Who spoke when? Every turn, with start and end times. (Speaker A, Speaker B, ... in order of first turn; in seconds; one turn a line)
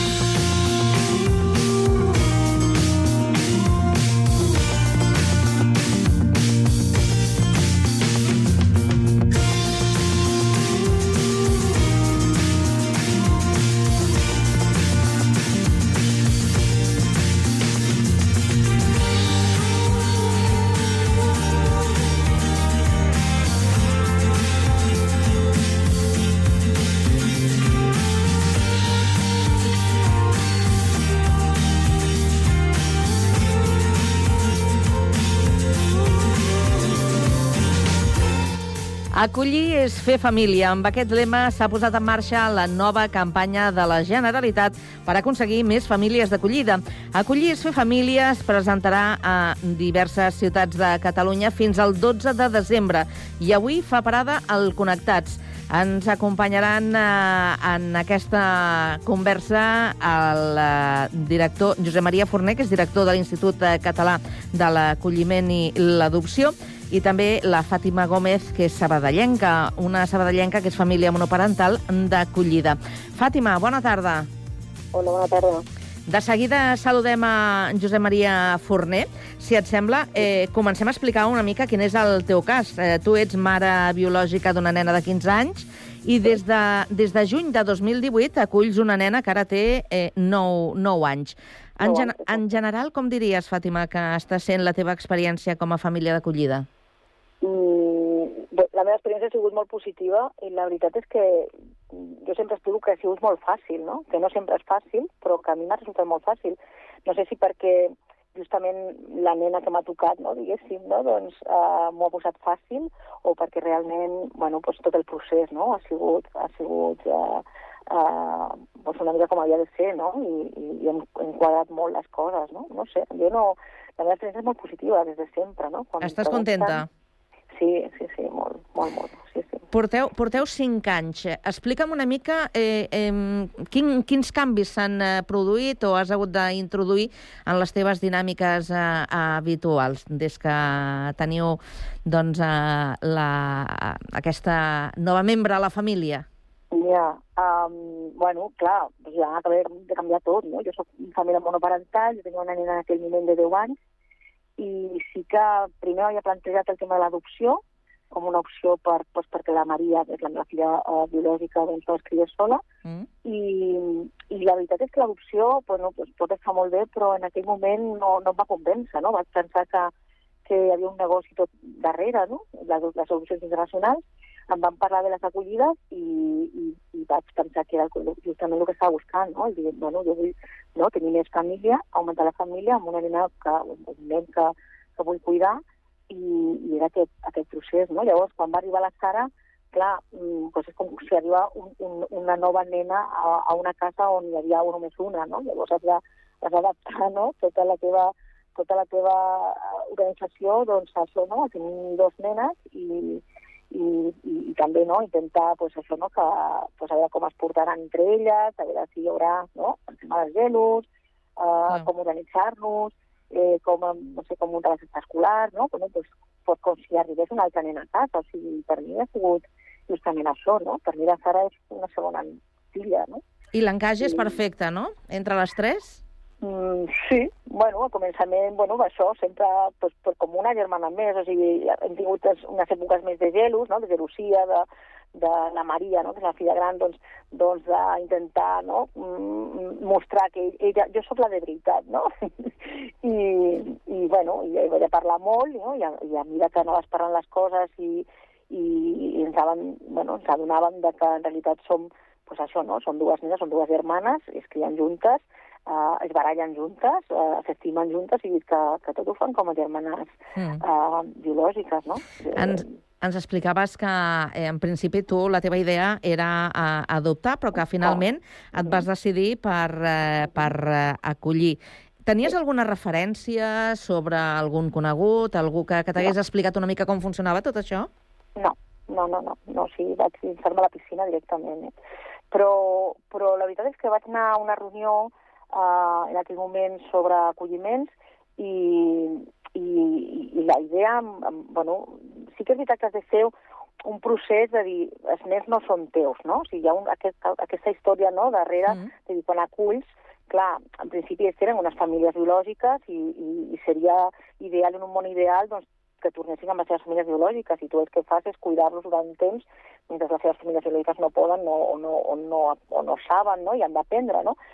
Speaker A: 39.1-74.3
Speaker B: 74.9-75.7
Speaker A: 76.1-96.7
Speaker B: 91.8-92.4
Speaker B: 97.4-126.8
Speaker A: 126.0-126.9
Speaker B: 127.6-129.6
Speaker A: 129.7-146.3
Speaker B: 146.7-153.8
Speaker B: 154.6-162.6
Speaker B: 163.2-169.9
Speaker B: 170.4-210.9
Speaker B: 211.4-223.2
Speaker A: 223.5-226.0
Speaker B: 226.4-242.5
Speaker B: 243.0-262.7
Speaker A: 260.4-260.6
Speaker A: 262.4-277.9
Speaker B: 268.6-268.8
Speaker B: 278.4-281.7
Speaker B: 282.3-314.4